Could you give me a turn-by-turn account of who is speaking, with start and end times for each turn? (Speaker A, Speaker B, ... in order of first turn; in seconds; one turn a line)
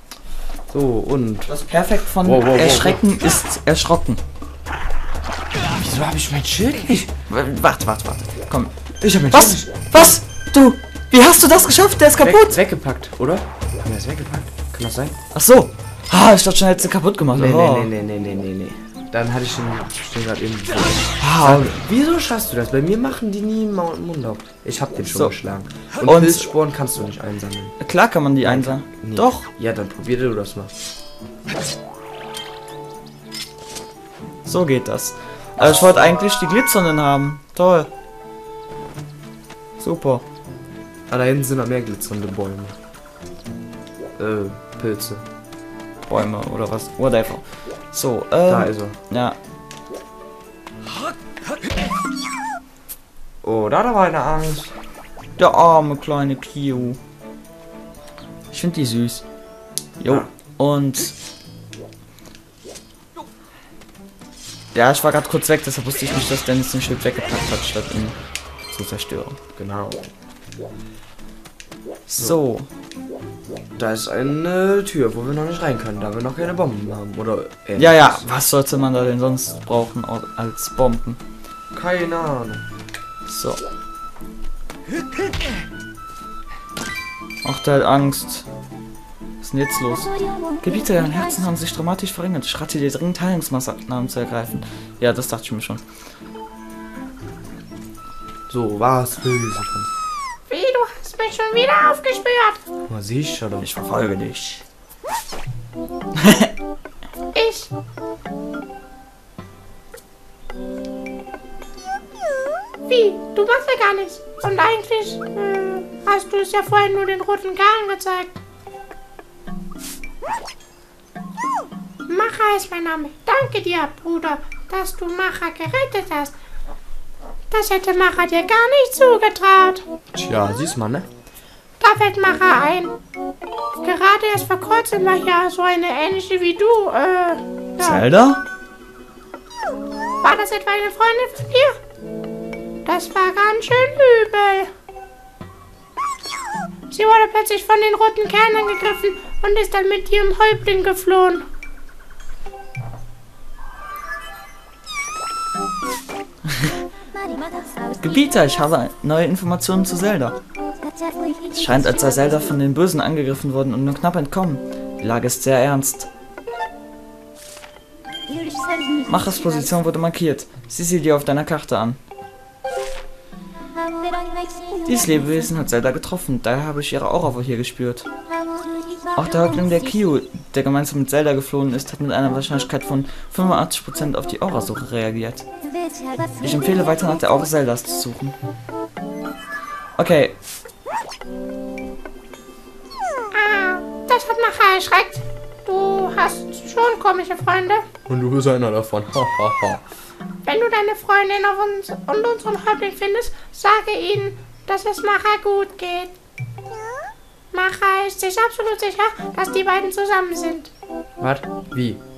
Speaker A: 0.7-1.5
Speaker B: 1.5-4.2
Speaker A: 2.2-3.0
Speaker A: 5.7-7.1
Speaker B: 7.3-8.7
Speaker A: 9.0-9.9
Speaker B: 9.3-12.6
Speaker A: 12.2-15.2
Speaker B: 15.3-17.9
Speaker A: 17.3-27.8
Speaker B: 21.2-21.7
Speaker B: 25.1-25.3
Speaker B: 26.0-26.5
Speaker B: 27.8-29.5
Speaker A: 28.4-30.7
Speaker B: 34.4-37.9
Speaker B: 39.8-40.2
Speaker A: 41.1-42.8
Speaker A: 44.2-45.2
Speaker B: 46.1-49.4
Speaker A: 48.5-49.0
Speaker A: 53.4-54.7
Speaker B: 55.4-57.0
Speaker B: 58.5-59.2
Speaker B: 60.0-61.1
Speaker B: 64.7-68.2
Speaker B: 68.7-69.4
Speaker A: 69.5-70.1
Speaker B: 72.1-72.7
Speaker A: 73.8-78.3
Speaker B: 77.8-81.2
Speaker A: 81.7-82.6
Speaker B: 83.3-83.6
Speaker B: 87.4-88.5
Speaker B: 89.4-95.8
Speaker A: 98.5-99.9
Speaker C: 100.5-102.6
Speaker A: 102.9-103.7
Speaker B: 103.6-104.6
Speaker B: 106.1-106.5
Speaker C: 107.3-107.7
Speaker C: 112.8-118.3
Speaker C: 122.1-126.3
Speaker C: 127.5-129.8
Speaker A: 130.1-131.1
Speaker C: 131.8-132.9
Speaker C: 133.8-138.0
Speaker B: 137.8-138.4
Speaker C: 140.2-141.8
Speaker C: 142.8-144.7
Speaker C: 146.9-151.4
Speaker B: 158.0-160.4
Speaker B: 161.5-166.1
Speaker B: 169.0-172.0
Speaker B: 174.8-178.1
Speaker B: 179.1-185.4
Speaker B: 186.4-188.3
Speaker B: 190.0-190.3
Speaker C: 193.3-197.8
Speaker A: 198.1-199.8
Speaker C: 200.4-206.1
Speaker C: 207.5-210.7
Speaker A: 211.2-212.0